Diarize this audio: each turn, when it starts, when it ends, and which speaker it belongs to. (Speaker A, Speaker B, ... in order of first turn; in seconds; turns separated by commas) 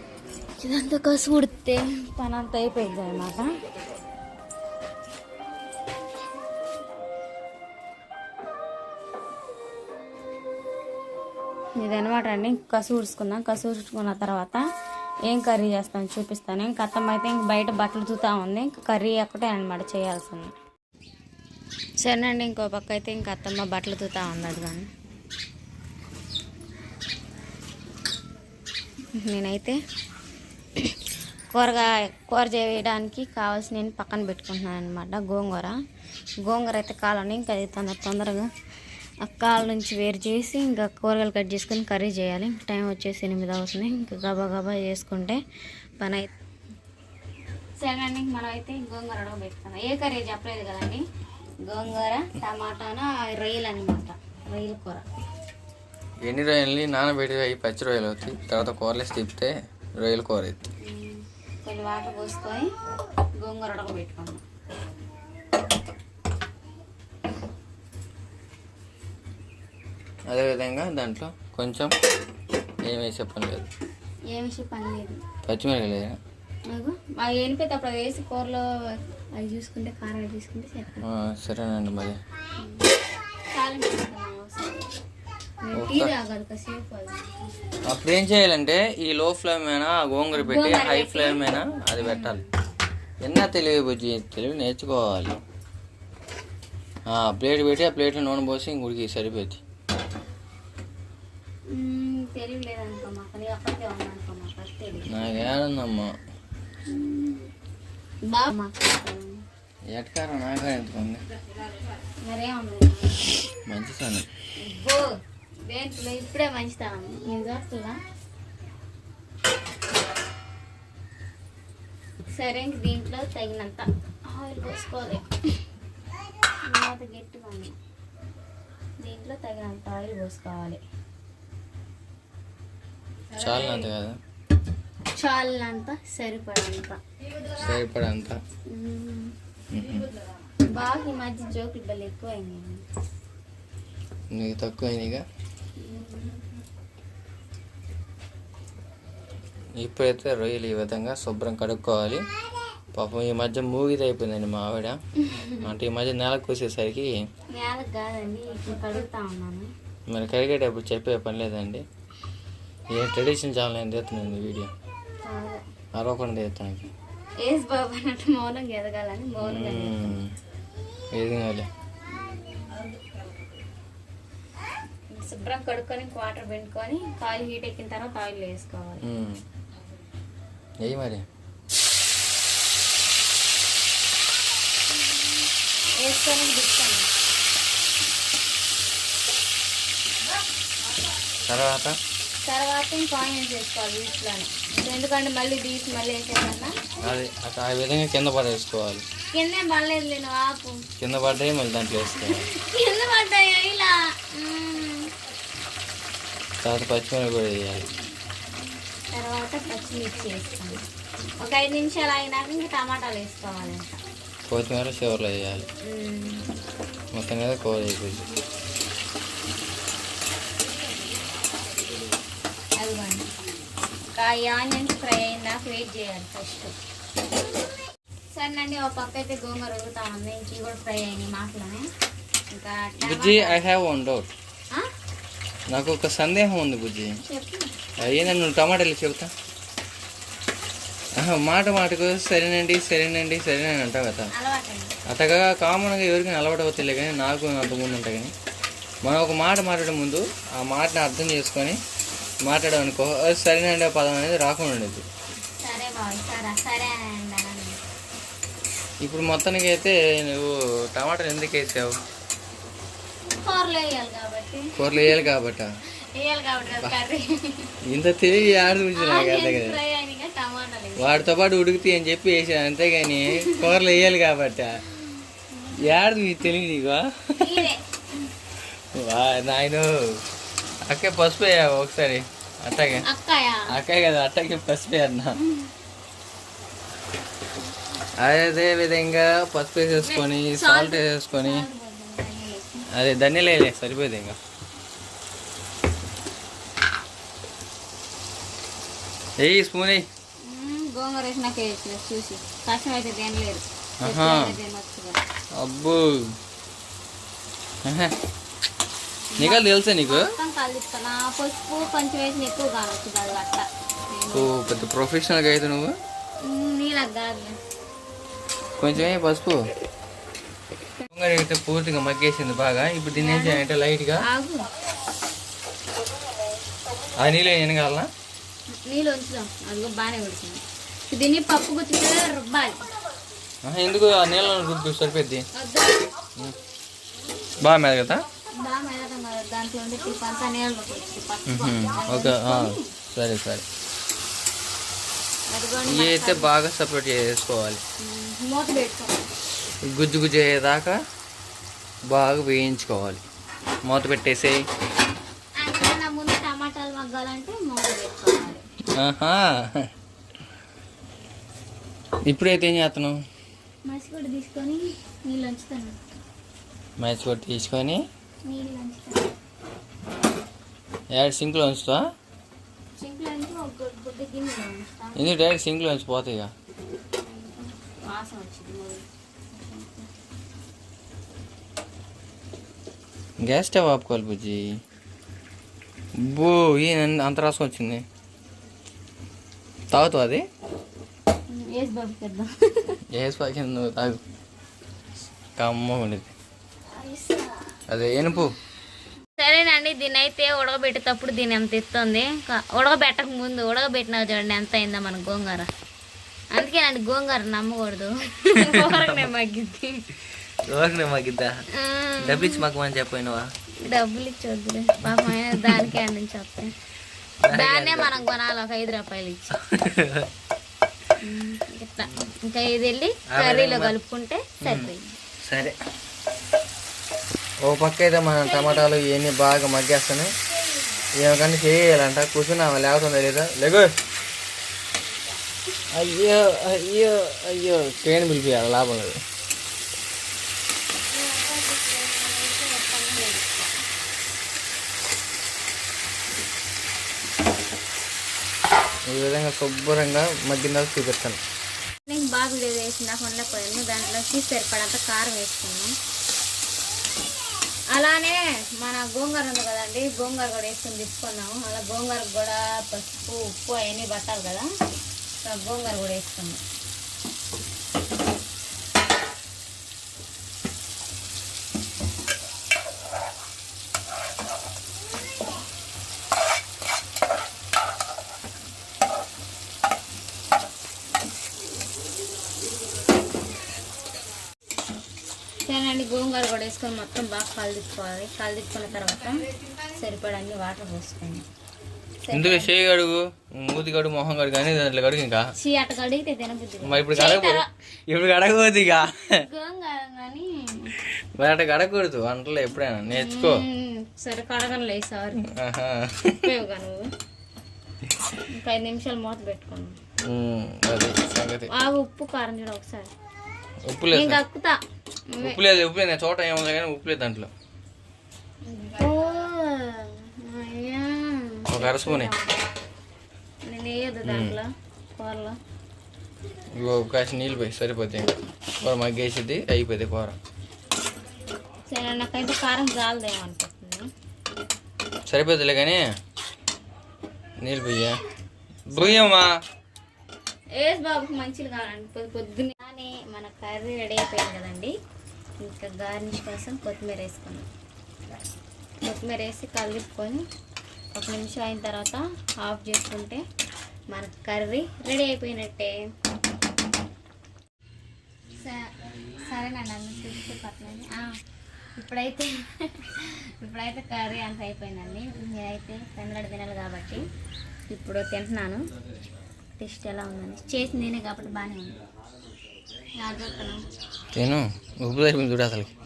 Speaker A: 0.6-3.5, Speaker A: 11.8-14.6, Speaker A: 15.3-20.6, Speaker A: 22.0-24.9, Speaker A: 29.2-29.8, Speaker A: 31.5-35.7, Speaker A: 36.4-38.5, Speaker A: 39.2-45.4, Speaker A: 46.0-46.3, Speaker A: 47.8-51.0, Speaker A: 51.6-55.0, Speaker B: 56.2-60.6, Speaker A: 60.8-62.7, Speaker A: 63.4-64.4, Speaker B: 70.3-71.9, Speaker B: 72.8-73.6, Speaker A: 74.3-75.2, Speaker B: 75.5-76.2, Speaker A: 76.7-78.7, Speaker A: 79.3-81.0, Speaker B: 81.0-82.2, Speaker A: 82.6-82.9, Speaker A: 83.5-84.9, Speaker A: 85.6-87.5, Speaker B: 85.7-86.1, Speaker B: 87.8-92.4, Speaker A: 90.3-92.5, Speaker B: 93.2-95.4, Speaker B: 97.1-99.6, Speaker A: 101.7-105.5, Speaker B: 105.1-106.1, Speaker A: 106.9-107.5, Speaker A: 108.2-109.4, Speaker B: 109.9-111.2, Speaker A: 112.2-113.3, Speaker B: 113.7-114.3, Speaker A: 114.6-118.0, Speaker A: 122.3-125.3, Speaker A: 126.6-127.7, Speaker A: 129.0-130.8, Speaker A: 133.3-133.9, Speaker B: 133.3-134.2, Speaker A: 135.1-137.0, Speaker B: 137.6-138.4, Speaker A: 138.7-139.3, Speaker B: 139.7-140.1, Speaker A: 140.7-142.8, Speaker B: 144.3-145.2, Speaker A: 145.8-146.4, Speaker B: 149.8-152.2, Speaker B: 152.9-155.0, Speaker A: 155.2-155.6, Speaker B: 155.6-157.2, Speaker A: 157.5-159.7, Speaker B: 160.1-161.8, Speaker B: 162.9-164.7, Speaker A: 165.2-165.6, Speaker B: 165.9-166.9, Speaker A: 167.4-170.1, Speaker B: 169.4-170.3, Speaker B: 171.1-171.7, Speaker A: 172.1-173.0, Speaker A: 175.1-179.0, Speaker B: 179.0-179.4, Speaker B: 180.8-181.2, Speaker A: 186.0-187.1, Speaker B: 191.4-192.0, Speaker A: 192.4-196.9, Speaker B: 197.0-199.0, Speaker A: 199.3-200.8, Speaker B: 201.0-202.4, Speaker A: 202.2-205.1, Speaker B: 206.6-207.9, Speaker A: 209.1-210.8, Speaker A: 211.4-214.0, Speaker B: 214.5-215.6, Speaker A: 215.8-216.4, Speaker B: 217.1-218.2, Speaker A: 222.8-223.2, Speaker A: 224.1-226.7, Speaker A: 228.3-231.9, Speaker A: 232.5-233.6, Speaker B: 233.0-234.3, Speaker B: 235.7-237.2, Speaker A: 237.2-237.7, Speaker B: 238.0-239.3, Speaker B: 241.2-244.3, Speaker A: 244.3-244.9, Speaker B: 245.1-248.3, Speaker B: 249.0-251.8, Speaker B: 252.4-255.0, Speaker A: 255.6-257.8, Speaker B: 259.0-262.0, Speaker A: 263.3-265.3, Speaker B: 264.8-265.7, Speaker A: 266.1-267.7, Speaker B: 267.8-269.8, Speaker A: 268.9-271.3, Speaker B: 271.0-274.8, Speaker A: 273.3-273.9, Speaker A: 275.5-276.0, Speaker B: 275.8-277.7, Speaker A: 277.4-277.8, Speaker B: 278.9-280.2, Speaker B: 280.8-283.0, Speaker A: 283.0-283.7, Speaker B: 283.7-285.4, Speaker A: 285.4-285.7, Speaker B: 288.2-291.7, Speaker A: 289.9-292.9, Speaker B: 292.9-294.4, Speaker B: 299.4-300.1, Speaker A: 300.4-305.2, Speaker B: 304.0-304.5, Speaker B: 305.6-306.4, Speaker B: 307.8-308.1, Speaker A: 309.3-314.5, Speaker B: 309.4-310.3, Speaker B: 314.3-315.9, Speaker A: 316.4-317.6, Speaker B: 318.8-319.7, Speaker B: 321.1-324.2, Speaker A: 323.1-323.6, Speaker A: 324.2-324.7, Speaker B: 327.2-328.1, Speaker A: 328.7-332.8, Speaker B: 333.6-335.4, Speaker A: 335.5-336.1, Speaker B: 337.6-338.2, Speaker A: 338.5-342.9, Speaker B: 341.5-343.6, Speaker A: 345.5-346.5, Speaker B: 345.8-347.8, Speaker A: 348.0-349.2, Speaker B: 349.9-351.0, Speaker B: 352.1-353.2, Speaker B: 353.8-354.6, Speaker A: 355.6-358.6, Speaker B: 358.9-359.9, Speaker B: 362.2-363.2, Speaker A: 363.8-365.9, Speaker B: 367.0-368.0, Speaker A: 368.4-369.3, Speaker B: 371.1-372.0, Speaker A: 373.0-375.3, Speaker B: 375.1-376.5, Speaker A: 377.2-380.1, Speaker B: 383.4-384.8, Speaker B: 386.2-388.0, Speaker B: 389.9-390.4, Speaker A: 391.5-393.0, Speaker B: 393.1-394.2, Speaker B: 395.6-396.3, Speaker A: 396.9-397.6, Speaker B: 397.9-398.5, Speaker A: 399.4-405.7, Speaker A: 406.5-410.0, Speaker B: 408.6-409.3, Speaker B: 410.6-411.6, Speaker A: 411.7-412.6, Speaker B: 412.2-413.5, Speaker A: 413.8-416.7, Speaker B: 415.0-415.9, Speaker B: 417.4-418.2, Speaker A: 417.5-419.6, Speaker B: 419.6-420.3, Speaker A: 421.2-425.2, Speaker B: 423.3-423.9, Speaker B: 424.6-424.9, Speaker B: 425.4-425.8, Speaker B: 427.6-430.3, Speaker A: 428.4-428.9, Speaker B: 431.2-433.9, Speaker B: 435.9-439.2, Speaker A: 441.1-443.7, Speaker B: 449.1-451.4, Speaker A: 452.1-455.9, Speaker A: 457.9-464.7, Speaker A: 465.4-466.6, Speaker A: 485.6-491.4, Speaker A: 492.2-492.7, Speaker B: 492.3-495.5, Speaker A: 495.6-497.7, Speaker B: 496.8-499.4, Speaker A: 499.4-500.9, Speaker B: 501.4-503.6, Speaker A: 503.1-505.4, Speaker B: 505.4-506.5, Speaker A: 506.2-507.1, Speaker A: 508.5-510.0, Speaker B: 510.2-511.7, Speaker A: 511.7-513.1, Speaker B: 513.8-514.4, Speaker A: 514.1-515.6, Speaker B: 515.4-517.5, Speaker A: 518.6-522.5, Speaker B: 521.7-522.3, Speaker A: 523.6-525.6, Speaker B: 524.2-524.6, Speaker B: 526.7-530.4, Speaker A: 531.9-534.1, Speaker B: 535.3-536.1, Speaker B: 537.6-538.2, Speaker B: 538.9-539.5, Speaker A: 538.9-539.3, Speaker A: 540.7-544.9, Speaker A: 545.6-547.7, Speaker A: 549.0-550.5, Speaker A: 551.1-553.4, Speaker A: 554.1-556.0, Speaker A: 558.5-561.3, Speaker A: 562.0-567.2, Speaker A: 567.9-568.8, Speaker A: 569.8-572.0, Speaker A: 573.1-573.8, Speaker B: 574.3-575.9